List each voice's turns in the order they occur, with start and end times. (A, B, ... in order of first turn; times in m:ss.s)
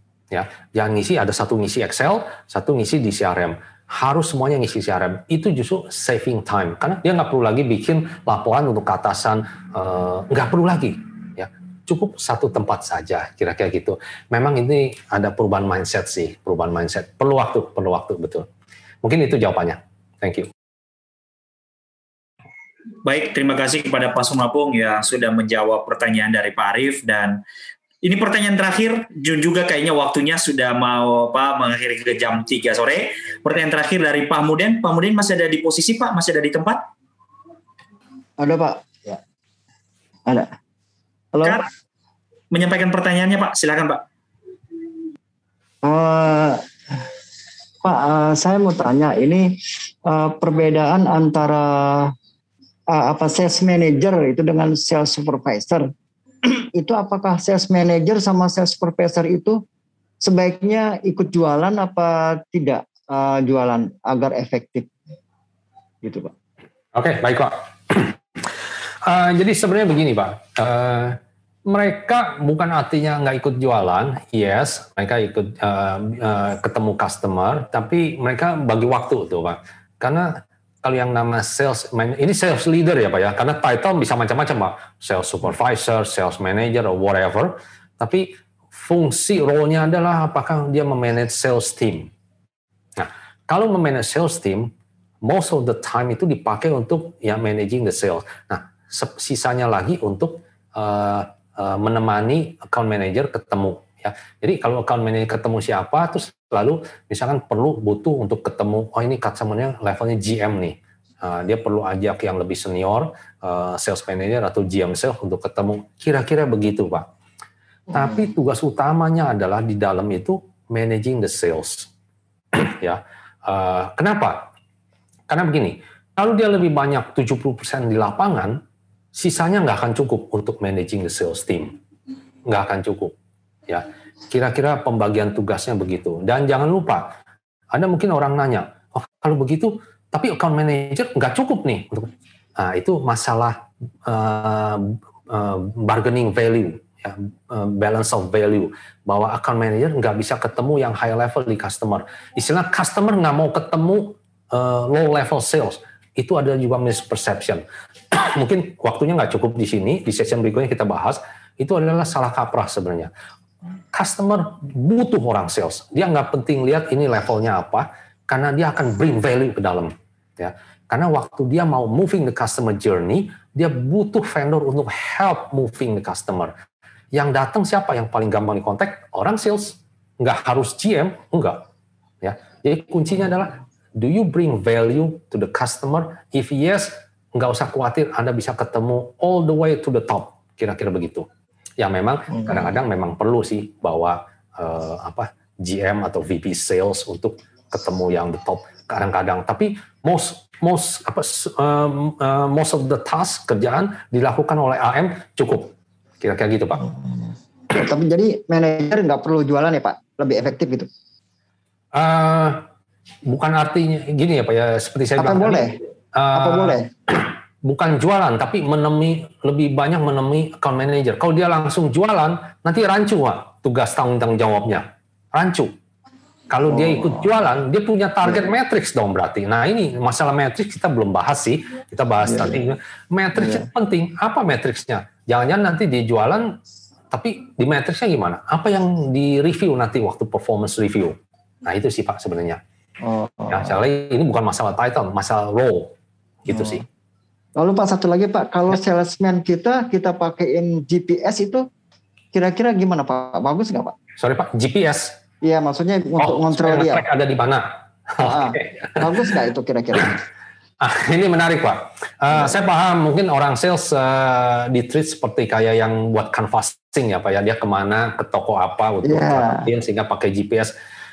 0:00.3-0:18.5 A
0:19.0-0:20.5 A
0:23.0-0:27.4 B
0:28.0-0:36.8 B
0:38.4-0:39.2 C
0:40.3-0:40.5 C
0:41.3-0:41.6 C
0:42.5-0:44.0 B
0:45.8-0:47.1 C
0:47.8-0:49.5 C
0:50.1-0:52.1 C
0:52.9-0:55.9 C
0:56.7-0:59.6 C
1:00.2-1:04.9 C
1:06.0-1:06.3 C
1:06.9-1:08.5 A
1:09.0-1:32.1 A
1:33.0-1:34.7 A
1:35.2-1:57.1 A
1:57.9-2:01.9 A
2:02.5-2:04.5 A
2:05.3-2:08.6 A
2:09.1-2:11.8 A
2:12.5-2:13.2 A
2:13.7-2:17.2 A
2:17.7-2:43.1 A
2:43.9-2:56.5 A
2:57.1-3:01.6 A
3:02.2-3:26.9 A
3:27.7-3:30.9 C
3:31.9-3:32.7 A
3:33.2-3:45.7 A
3:35.2-3:35.8 C
3:36.3-3:36.9 C
3:46.5-3:56.6 A
3:46.7-3:47.2 C
3:52.2-3:52.6 C
3:53.4-3:53.7 C
3:57.1-4:02.6 A
4:03.0-4:03.8 C
4:03.5-4:05.9 A
4:06.5-4:06.8 C
4:06.5-4:06.8 A
4:07.6-4:11.7 C
4:12.3-4:14.0 C
4:14.2-4:15.2 A
4:15.4-4:17.0 C
4:16.2-4:19.1 A
4:18.2-4:20.2 C
4:20.8-4:30.7 A
4:29.0-4:29.7 C